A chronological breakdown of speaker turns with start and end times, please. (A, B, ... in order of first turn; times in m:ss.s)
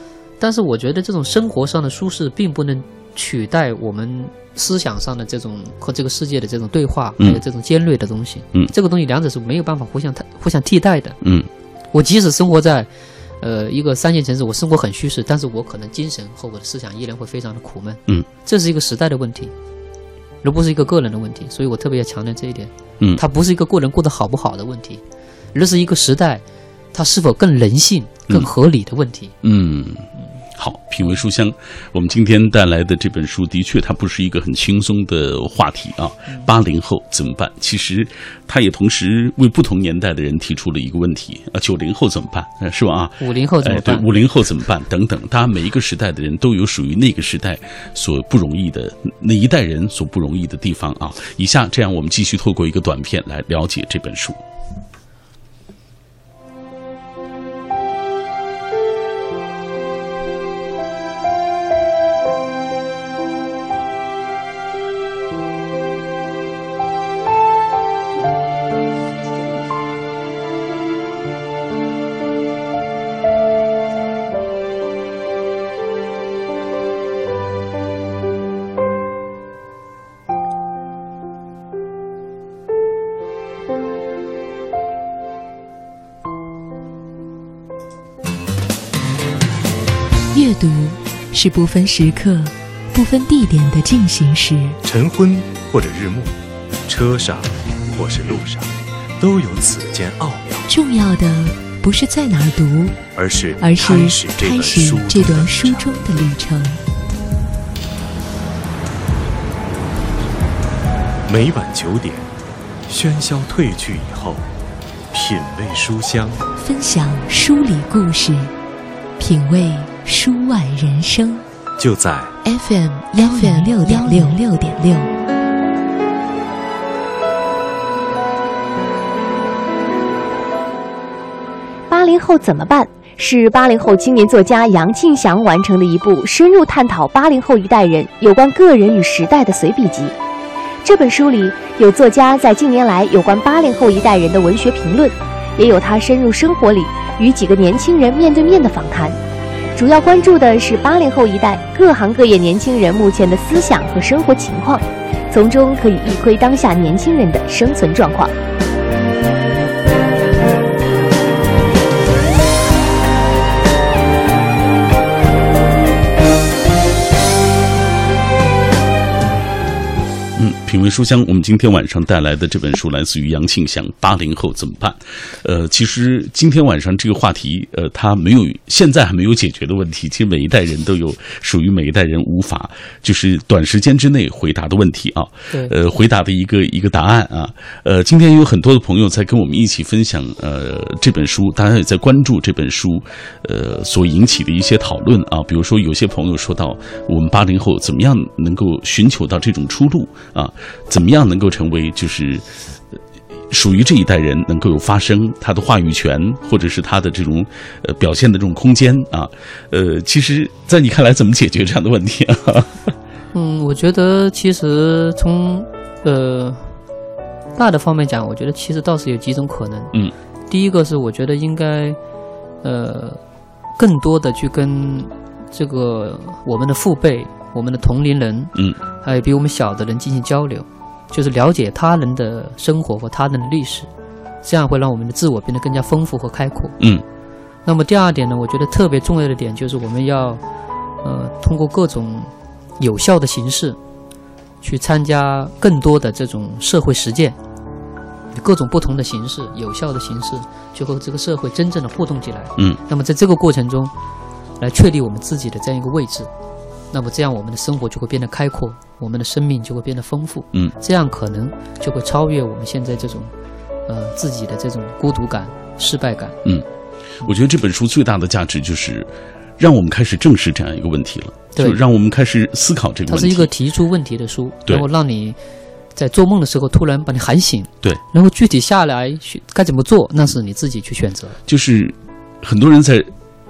0:00.4-0:11.2 A
0:11.2-0:11.5 B
0:11.9-0:12.9 A
0:13.4-0:19.5 A
0:20.4-0:25.0 A
0:25.5-0:29.4 A
0:29.4-0:54.4 B
0:43.2-0:44.1 A
1:30.3-1:34.8 C
1:34.8-1:40.7 D
1:40.7-1:43.0 C
1:43.1-1:45.9 D
1:43.6-1:46.8 C
1:51.3-1:52.3 D
1:52.9-1:54.5 D
1:55.1-1:56.4 D
1:56.6-1:58.5 C
1:59.2-2:01.4 C
2:01.8-2:02.4 D
2:02.4-2:05.1 C
2:11.9-2:20.2 E
2:20.8-2:29.2 E
2:29.8-2:38.3 E
2:50.4-3:22.4 B
3:23.5-3:32.9 B
3:33.3-3:36.8 A
3:37.6-3:39.9 A
3:40.5-3:42.0 A
3:42.6-3:43.2 A
3:43.8-3:53.9 A
3:54.4-3:56.8 A
3:57.7-4:00.4 A
4:01.0-4:03.8 A
4:04.6-4:07.4 A
4:08.3-4:13.9 A
4:14.6-4:16.3 A
4:16.9-4:23.3 A
4:23.9-4:26.4 A
4:27.2-4:33.5 B
4:33.1-4:35.4 A
4:36.0-4:41.4 A
4:41.5-4:43.1 B